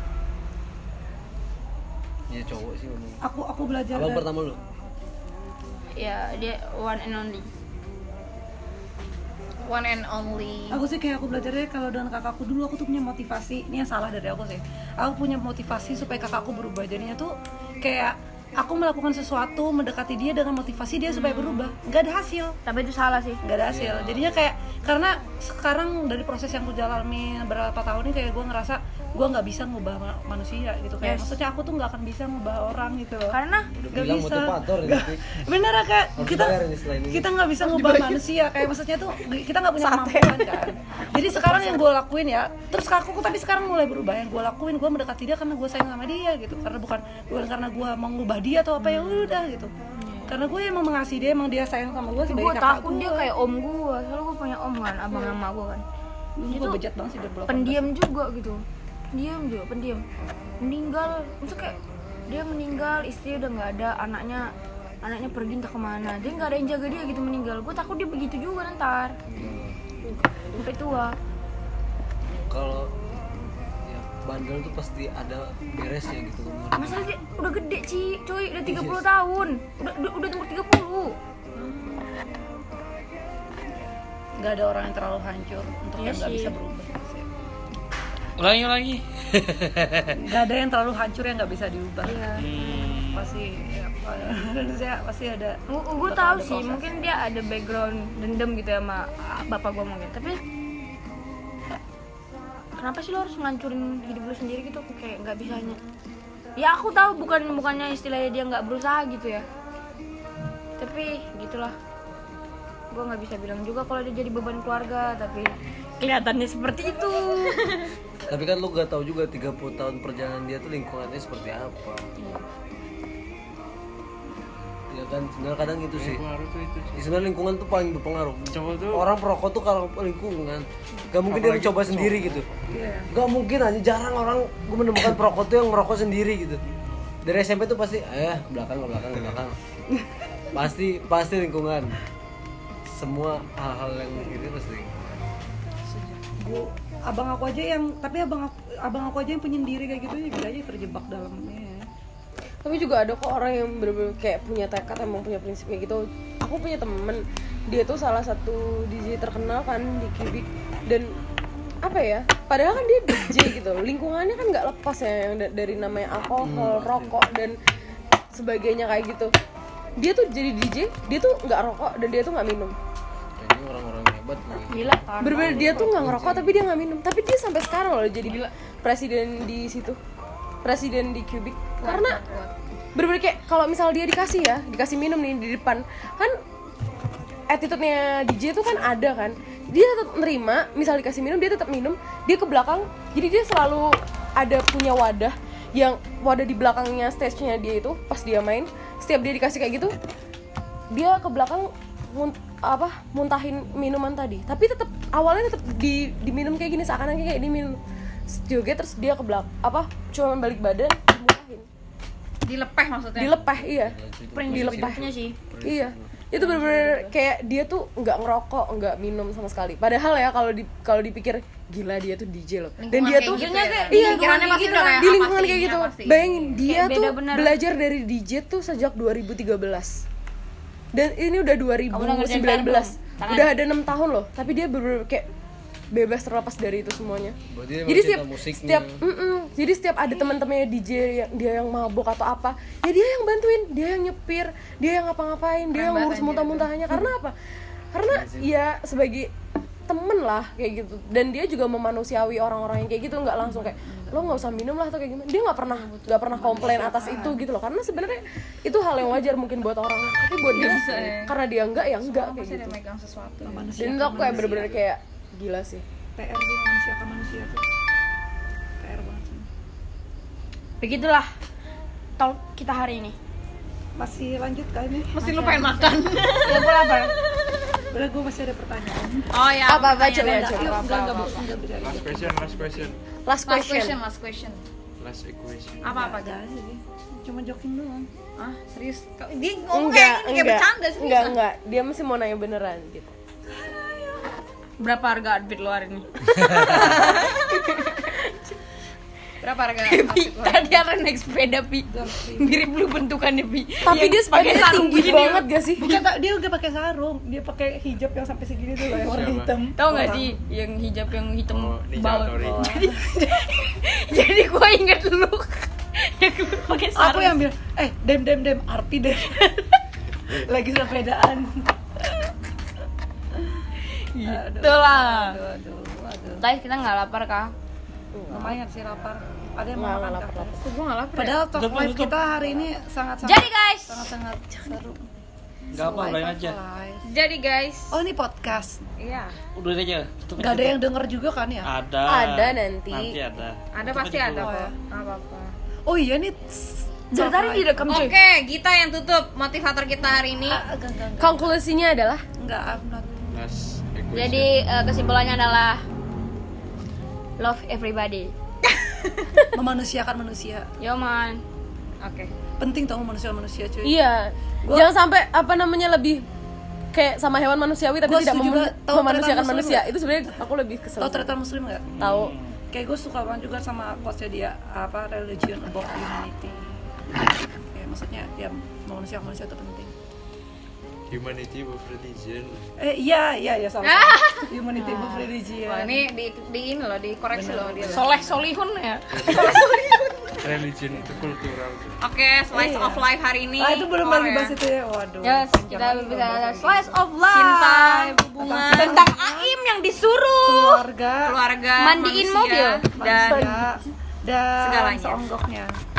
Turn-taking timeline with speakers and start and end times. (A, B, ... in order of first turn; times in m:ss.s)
0:02.3-0:03.2 A
0:03.2-0:04.3 B
0:03.9-0:04.6 A
0:06.0-0:07.5 C
0:09.6-0:10.8 D
0:10.7-0:22.6 B
0:21.1-0:21.7 C
0:22.6-0:23.4 C
0:23.4-0:33.4 B
0:23.7-0:24.2 E
0:31.0-0:31.4 C
0:33.3-0:33.7 C
0:33.8-0:35.2 A
0:33.9-0:49.7 B
0:36.2-0:37.3 A
0:37.7-0:38.0 C
0:39.8-0:40.5 C
0:48.8-0:49.3 C
0:50.0-0:50.4 C
0:50.3-0:53.3 B
0:52.3-0:55.8 C
0:56.4-0:57.9 B
0:56.5-0:56.8 C
0:57.5-1:00.0 C
1:00.6-1:01.8 C
1:02.3-1:04.5 C
1:05.0-1:09.2 C
1:09.3-1:09.8 A
1:10.6-1:11.2 C
1:12.5-1:12.9 A
1:13.8-1:17.1 A
1:16.7-1:21.2 C
1:18.6-1:19.0 A
1:21.6-1:22.0 B
1:23.8-1:27.3 B
1:26.0-1:26.5 C
1:28.4-1:30.2 F
1:30.2-1:32.2 B
1:32.0-1:32.7 C
1:32.4-1:33.3 F
1:33.1-1:37.1 B
1:35.7-1:40.4 C
1:42.8-1:45.8 C
1:46.6-1:49.5 C
1:50.8-1:51.8 C
1:52.9-1:57.9 C
1:58.3-2:02.1 A
2:02.2-2:02.4 C
2:04.9-2:06.2 A
2:06.0-2:07.1 E
2:07.0-2:12.5 A
2:08.5-2:09.1 E
2:11.2-2:12.5 E
2:12.7-2:13.1 B
2:13.1-2:16.6 A
2:17.2-2:19.6 A
2:20.5-2:21.9 A
2:22.9-2:25.1 A
2:26.4-2:31.9 B
2:32.6-2:41.1 G
2:41.8-2:47.6 G
2:46.4-2:47.2 A
2:48.3-2:49.3 G
2:50.0-2:52.8 G
2:53.4-2:56.6 A
2:54.7-2:56.0 C
2:55.2-3:00.0 G
3:00.6-3:02.2 G
3:01.8-3:02.5 D
3:01.9-3:02.2 C
3:02.9-3:06.4 G
3:07.5-3:20.0 G
3:20.9-3:27.8 G
3:28.3-3:31.7 G
3:32.4-3:33.4 D
3:33.2-3:34.0 G
3:33.4-3:36.1 A
3:34.4-3:35.4 C
3:34.5-3:35.1 G
3:35.6-3:50.0 G
3:36.4-3:37.1 C
3:42.8-3:46.3 D
3:43.2-3:44.5 C
3:46.6-3:47.6 C
3:50.9-3:55.3 G
3:51.9-3:53.6 C
3:55.9-3:57.4 G
3:57.5-3:59.0 A
3:57.9-4:07.4 G
4:05.7-4:06.7 D
4:07.9-4:09.3 G
4:08.1-4:08.5 A
4:09.9-4:22.8 G
4:13.4-4:14.4 B
4:15.7-4:16.7 C
4:16.3-4:17.4 B
4:20.5-4:23.8 D
4:23.4-4:24.7 B
4:23.8-4:25.8 G
4:26.2-4:27.6 B
4:28.8-4:29.5 B
4:30.8-4:31.3 C
4:32.2-4:33.2 C
4:34.0-4:35.9 B
4:35.2-4:36.7 D
4:36.4-4:37.1 C
4:37.9-4:39.3 B
4:39.3-4:41.4 D
4:39.7-4:40.8 G
4:40.1-4:42.9 B
4:41.8-4:43.0 E
4:43.3-4:44.0 G
4:43.5-4:44.6 D
4:45.0-4:45.8 E
4:45.8-4:48.1 B
4:45.8-4:46.4 D
4:48.4-4:51.4 D
4:49.7-4:53.1 G
4:53.6-4:54.2 B
4:54.8-4:57.5 C
4:56.6-4:57.4 G
4:56.8-4:57.2 D
4:59.4-5:00.8 D
4:59.9-5:05.5 C
5:01.9-5:02.7 B
5:03.8-5:06.0 G
5:05.8-5:10.4 B
5:09.0-5:09.6 E
5:09.8-5:17.4 C
5:11.5-5:12.9 E
5:12.4-5:13.0 B
5:17.0-5:22.2 B
5:24.1-5:25.4 C
5:24.2-5:26.4 B
5:26.4-5:27.5 C
5:28.1-5:28.6 G
5:28.3-5:30.6 B
5:29.8-5:30.8 G
5:30.8-5:31.4 D
5:31.2-5:35.1 B
5:31.5-5:32.2 F
5:33.2-5:34.1 C
5:35.7-5:36.6 F
5:35.7-5:37.1 B
5:37.0-5:37.9 C
5:37.9-5:38.8 B
5:39.0-5:39.4 D
5:39.6-5:40.8 F
5:40.4-5:41.7 B
5:41.6-5:44.4 F
5:42.0-5:43.2 G
5:43.7-5:45.5 D
5:44.3-5:44.8 B
5:45.9-5:48.0 B
5:47.1-5:48.2 C
5:47.9-5:50.6 D
5:50.4-5:51.6 B
5:51.2-5:52.2 G
5:52.4-5:53.2 B
5:53.3-5:54.5 E
5:54.1-5:55.8 C
5:57.4-5:58.3 C
5:59.5-6:00.7 B
6:00.8-6:01.4 C
6:02.0-6:02.3 D
6:02.6-6:04.0 B
6:03.8-6:06.2 G
6:04.6-6:04.9 B
6:06.9-6:11.3 G
6:08.0-6:09.9 B
6:11.0-6:11.9 B
6:12.0-6:12.3 G
6:12.0-6:12.5 F
6:12.7-6:16.7 B
6:17.4-6:19.9 B
6:21.1-6:22.6 E
6:22.8-6:26.1 B
6:23.8-6:24.5 D
6:24.8-6:25.3 C
6:25.5-6:28.1 D
6:27.3-6:28.1 B
6:27.9-6:30.4 C
6:29.1-6:29.7 E
6:30.4-6:32.0 E
6:32.0-6:34.6 D
6:32.5-6:33.0 B
6:33.6-6:37.2 B
6:35.2-6:40.8 C
6:37.2-6:39.0 D
6:38.4-6:39.6 B
6:40.4-6:41.4 B
6:41.2-6:43.5 D
6:41.8-6:43.4 C
6:43.0-6:45.8 B
6:44.6-6:45.2 D